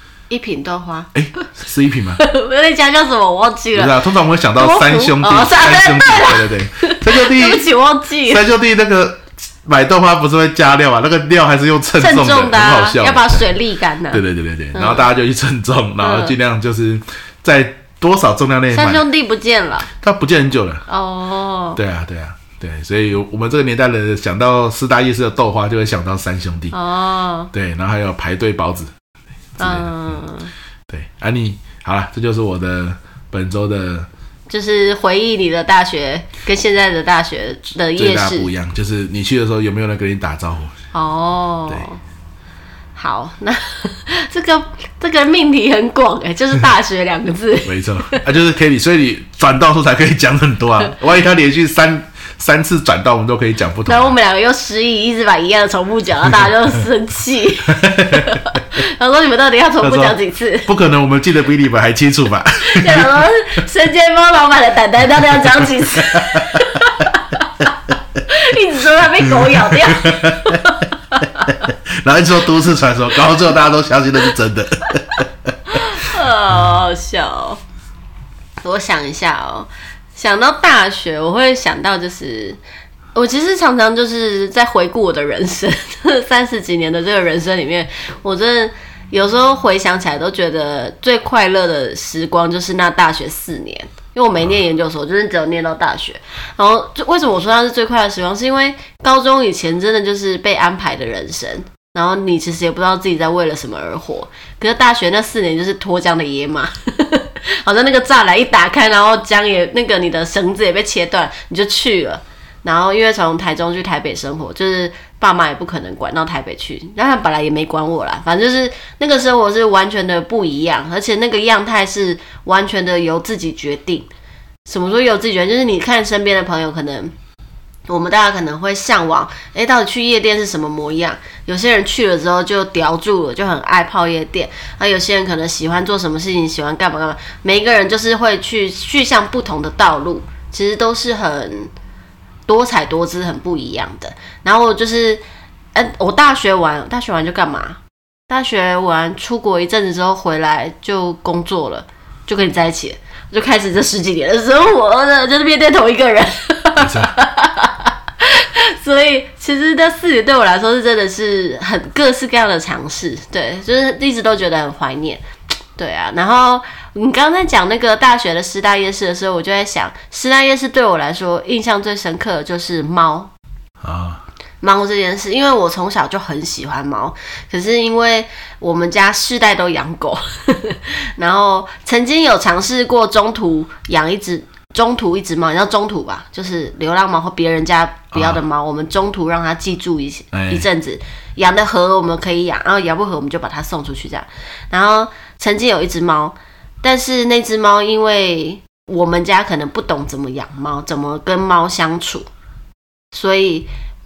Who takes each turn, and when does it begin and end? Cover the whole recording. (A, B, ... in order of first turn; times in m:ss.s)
0:00.3-0:01.5 A
0:01.1-0:02.2 B
0:02.2-0:04.0 A
0:03.7-0:07.7 B
0:04.6-0:08.4 A
0:08.3-0:13.5 B
0:12.0-0:15.1 A
0:14.1-0:19.0 B
0:16.0-0:16.4 A
0:18.7-0:19.9 A
0:19.9-0:20.9 B
0:20.9-0:21.8 A
0:21.8-0:26.8 B
0:26.7-0:27.5 A
0:27.5-0:28.9 B
0:29.6-0:30.2 B
0:29.6-0:30.5 A
0:30.9-0:34.1 B
0:34.5-0:38.5 A
0:38.0-0:40.8 B
0:40.9-0:42.0 A
0:43.0-0:48.2 A
0:47.7-0:54.1 B
0:53.9-1:00.7 A
0:57.7-0:58.4 B
0:59.8-1:03.2 B
1:02.6-1:07.7 A
1:05.6-1:06.7 B
1:08.3-1:11.6 A
1:09.4-1:10.6 B
1:11.5-1:15.5 B
1:15.7-1:17.6 A
1:18.6-1:22.6 A
1:23.2-2:04.1 A
2:04.7-2:07.1 A
2:07.9-2:21.7 A
2:22.5-2:25.2 A
2:25.8-2:45.2 A
2:36.8-2:37.1 B
2:45.8-2:53.3 A
2:53.8-2:54.2 B
2:54.6-3:22.3 A
3:08.1-3:08.4 B
3:10.3-3:10.7 B
3:23.1-3:23.7 A